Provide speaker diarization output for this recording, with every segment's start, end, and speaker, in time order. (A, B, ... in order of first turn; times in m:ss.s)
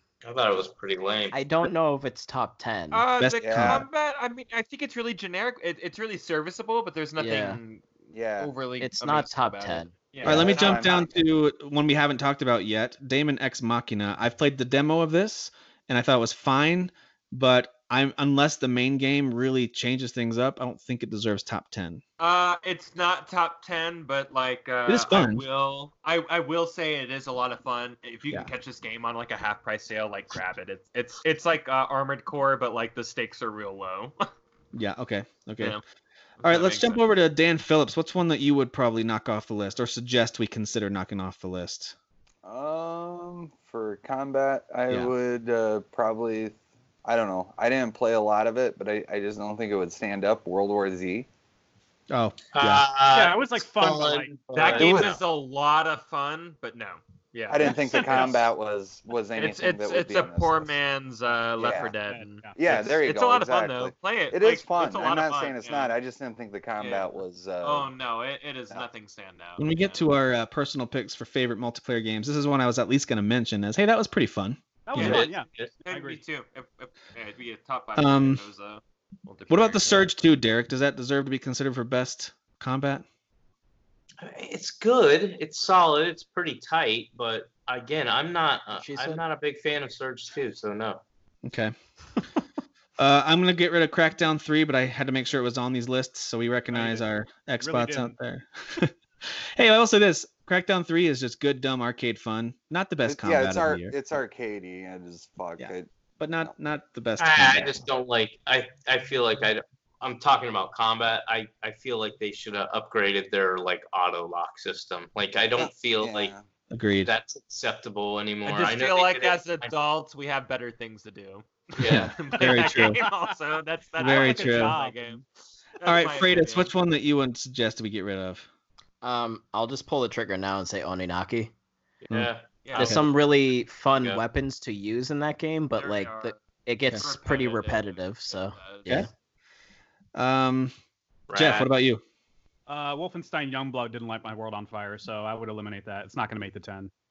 0:00.2-0:01.4 A
0:01.3-0:03.0 B
0:02.9-0:11.0 C
0:03.2-0:03.8 D
0:03.4-0:03.8 E
0:07.2-0:07.6 B
0:08.1-0:08.5 E
0:08.8-0:09.9 B
0:10.2-0:11.1 E
0:10.2-0:22.0 D
0:22.2-0:34.2 C
0:24.8-0:25.4 D
0:34.7-0:35.8 D
0:36.4-0:37.0 C
0:36.4-0:41.9 D
0:42.4-0:51.3 E
0:52.1-0:52.9 D
0:52.5-0:55.2 A
0:53.1-0:54.6 F
0:54.5-0:58.5 C
0:54.7-0:55.2 E
0:57.5-1:00.8 E
0:58.0-0:58.3 F
0:59.3-1:05.9 C
1:01.6-1:01.9 E
1:02.1-1:02.6 F
1:02.5-1:07.9 E
1:06.8-1:10.0 C
1:09.6-1:15.2 D
1:14.8-1:16.2 F
1:14.9-1:15.8 A
1:14.9-1:20.1 C
1:18.0-1:18.4 D
1:19.5-1:23.0 D
1:24.2-1:31.0 A
1:28.7-1:29.2 B
1:31.4-1:31.7 D
1:33.0-1:44.0 D
1:36.7-1:37.0 F
1:37.6-1:38.1 F
1:43.0-1:45.9 E
1:45.6-1:47.9 D
1:47.2-1:56.3 A
1:55.6-1:56.4 E
1:56.7-1:57.1 D
1:57.0-1:59.7 A
1:58.4-2:05.2 C
2:01.8-2:02.2 A
2:01.9-2:03.0 D
2:02.5-2:03.1 F
2:04.0-2:04.8 D
2:04.0-2:05.2 F
2:05.8-2:06.7 C
2:05.8-2:08.5 D
2:09.0-2:11.5 B
2:12.0-2:13.0 A
2:12.6-2:13.0 C
2:12.7-2:19.1 B
2:15.7-2:16.4 C
2:16.9-2:18.9 C
2:20.1-2:20.7 D
2:21.3-2:21.7 A
2:21.4-2:22.0 D
2:22.7-2:26.9 F